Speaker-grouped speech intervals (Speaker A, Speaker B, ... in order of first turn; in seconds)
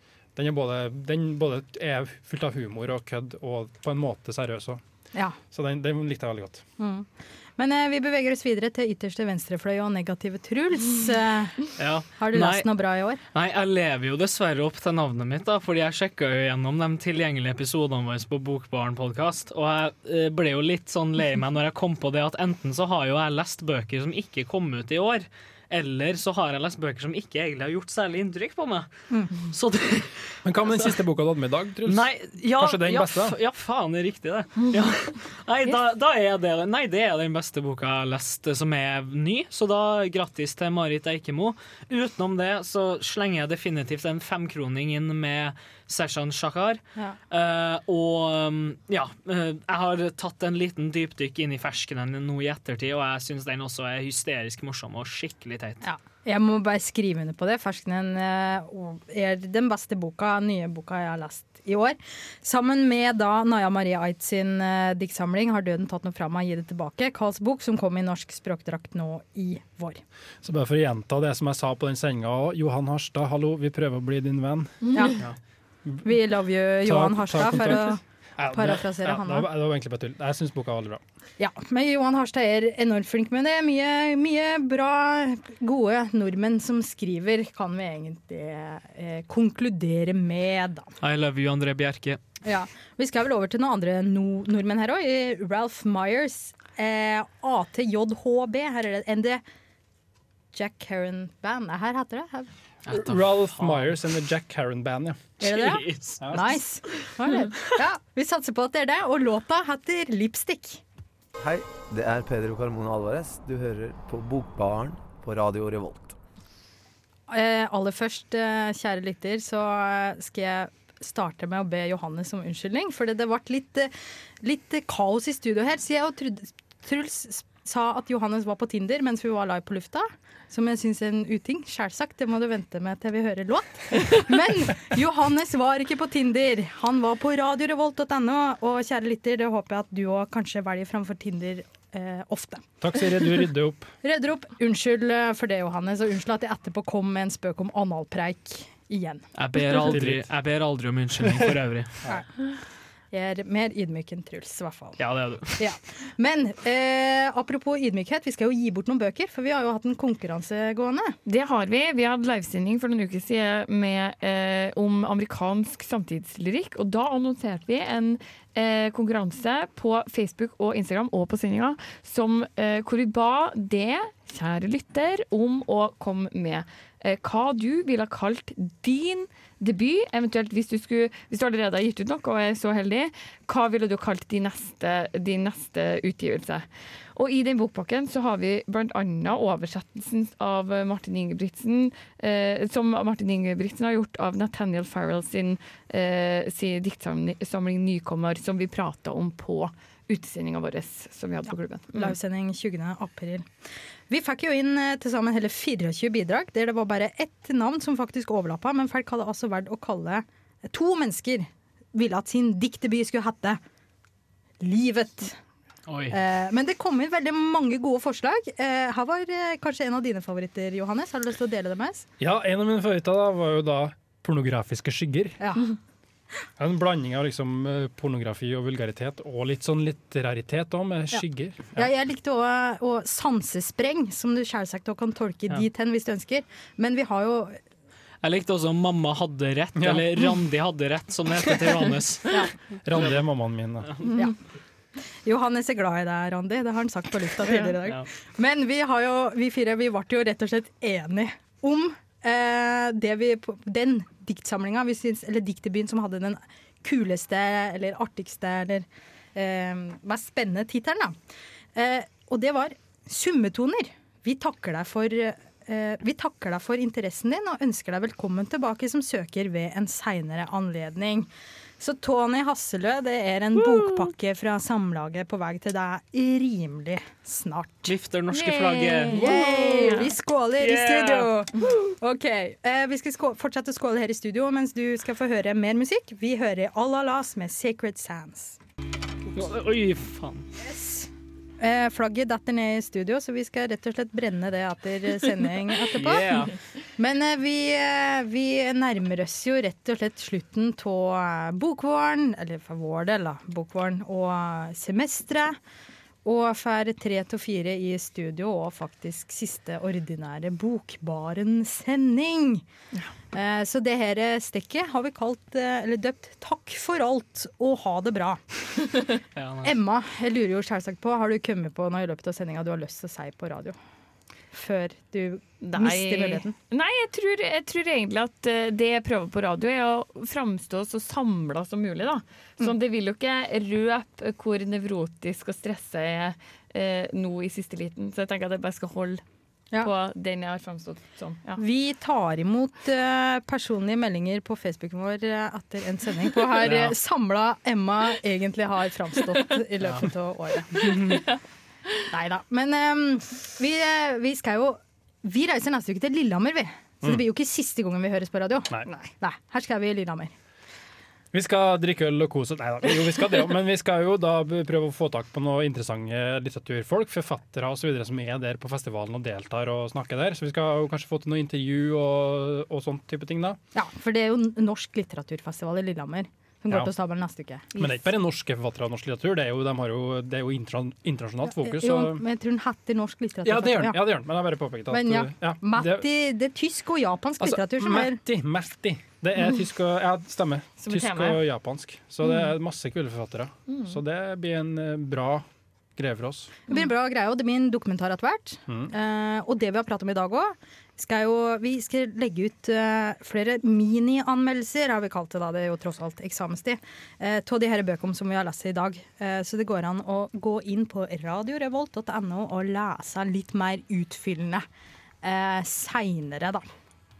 Speaker A: 0.3-4.8, 5.5-6.6, 30.4-33.4, 70.4-74.8, 76.8-81.0, 102.9-105.4, 142.8-143.9, 149.8-150.3, 151.3-151.5, 222.2-225.4, 226.6-231.9, 239.8-240.3, 242.8-243.9, 361.3-373.6, 377.8-382.2, 383.4-386.1, 387.4-395.4, 395.9-396.5
Speaker B: 6.8-13.2, 55.8-70.0, 74.9-75.2, 76.0-79.5, 81.4-90.9, 92.4-99.4, 100.5-102.5, 105.4-110.8, 117.3-123.9, 124.4-142.6, 144.0-149.2, 153.1-155.0, 155.6-161.2, 201.9-203.5, 204.1-213.6, 214.6-215.3, 216.1-222.1, 225.4-225.7, 231.7-237.6, 244.1-244.3, 245.2-261.1, 261.8-277.9, 279.1-288.6, 290.6-305.6, 306.2-312.6, 313.3-319.0, 319.6-323.8, 324.5-326.5, 341.6-351.2, 352.1-360.3, 373.7-377.8, 381.5-384.0, 384.9-388.2, 396.7-414.6, 415.2-416.6
Speaker C: 11.8-12.7, 13.3-30.9, 31.9-55.8, 91.0-92.2, 102.9-103.9, 105.4-107.4, 149.3-152.0, 155.0-155.7, 215.9-216.2, 238.2-242.4, 273.6-274.1, 277.9-279.6, 280.6-281.3, 289.3-290.5, 295.9-296.5, 319.3-319.7, 346.6-346.9
Speaker D: 111.4-116.1
Speaker E: 161.2-202.1, 278.3-280.1, 325.6-339.2, 339.8-341.6, 390.8-391.4, 393.7-394.0